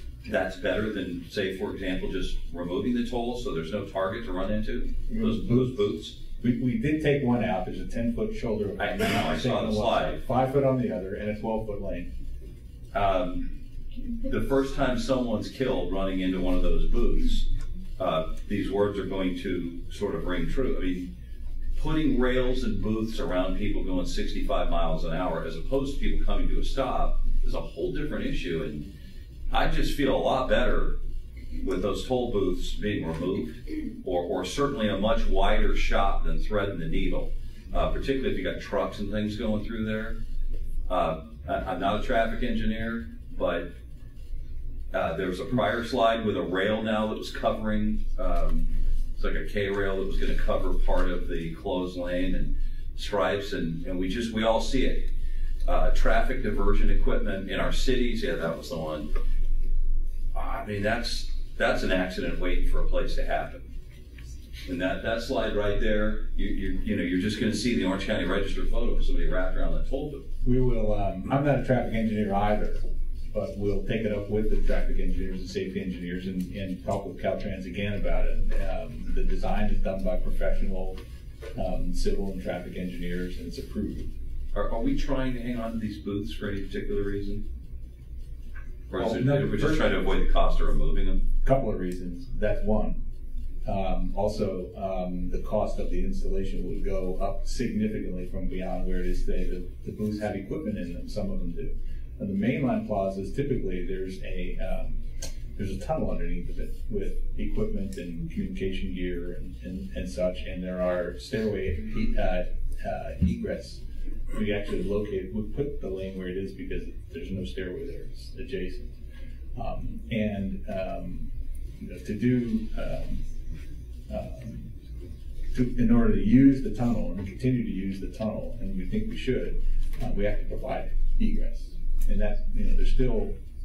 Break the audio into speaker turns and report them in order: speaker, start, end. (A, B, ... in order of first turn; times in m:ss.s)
0:00.3-0:06.2 A
0:05.1-0:05.8 B
0:06.4-0:12.1 B
0:08.8-0:10.2 A
0:12.9-0:13.5 A
0:14.3-0:21.1 A
0:21.8-0:28.9 A
0:29.5-0:31.0 A
0:31.6-0:40.2 A
0:40.9-0:43.7 A
0:44.9-0:55.1 A
0:55.6-0:59.1 A
1:00.3-1:03.6 A
1:04.7-1:10.2 A
1:10.4-1:21.0 B
1:21.6-1:24.1 B
1:24.5-1:27.4 A
1:28.9-1:31.2 A
1:29.0-1:29.9 B
1:31.4-1:33.0 B
1:33.6-1:45.0 B
1:45.6-1:53.8 B
1:54.3-1:58.9 B
1:59.6-2:03.2 B
2:04.1-2:04.7 B
2:05.5-2:13.4 B